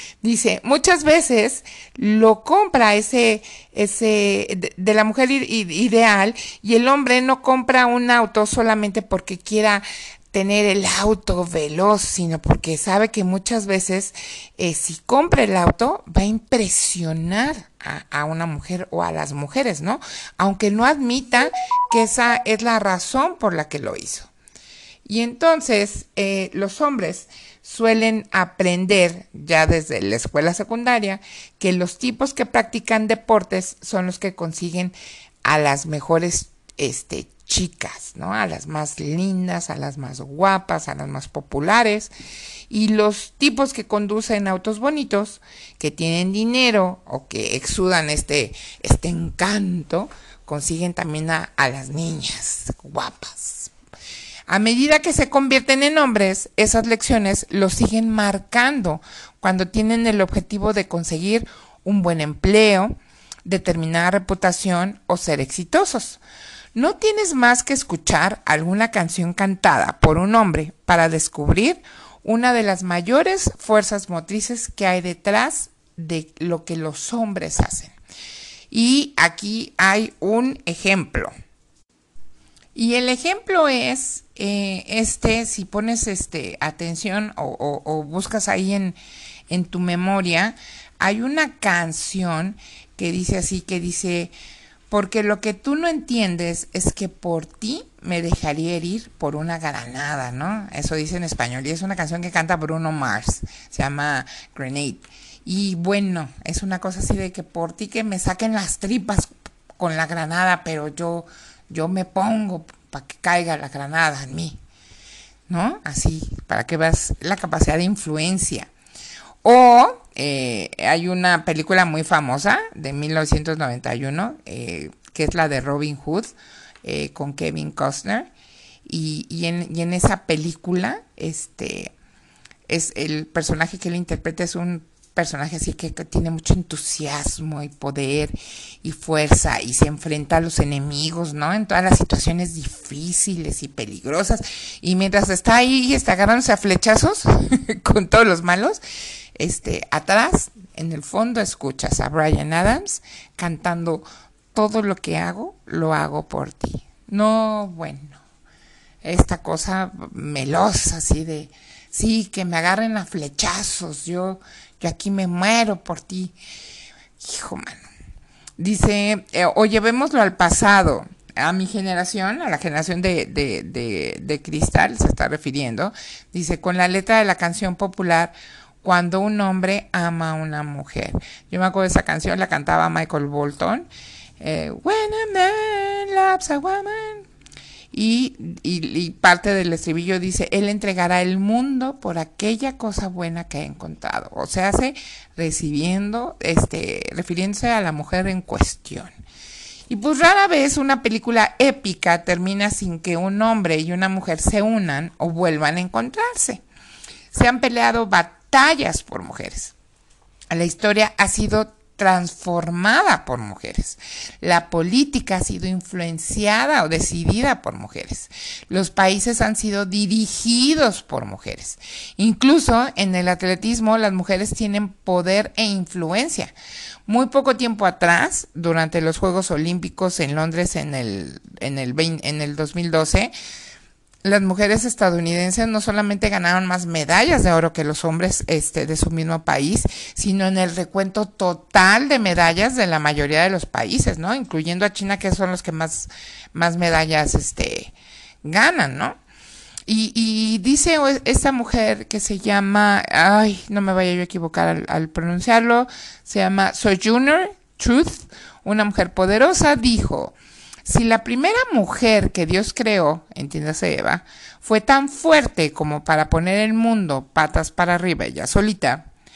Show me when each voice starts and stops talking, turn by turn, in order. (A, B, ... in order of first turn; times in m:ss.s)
0:00.2-0:24.3 A
0:25.0-0:42.1 A
0:42.7-0:53.7 A
0:54.5-1:02.9 A
1:03.4-1:06.2 A
1:06.7-1:17.9 A
1:18.7-1:21.3 A
1:22.7-1:29.0 A
1:29.5-1:34.3 A
1:34.9-1:54.6 A
1:55.5-1:58.7 A
1:59.4-2:08.3 A
2:08.8-2:11.9 A
2:12.7-2:28.8 A
2:29.4-2:38.2 A
2:39.0-2:46.4 A
2:47.2-2:47.8 A
2:48.6-3:03.8 A
3:04.4-3:07.2 A
3:07.9-3:19.1 A
3:19.9-3:26.6 A
3:27.3-3:29.7 A
3:30.5-3:46.5 A
3:47.1-3:53.3 A
3:54.2-4:09.2 A
4:09.9-4:29.1 A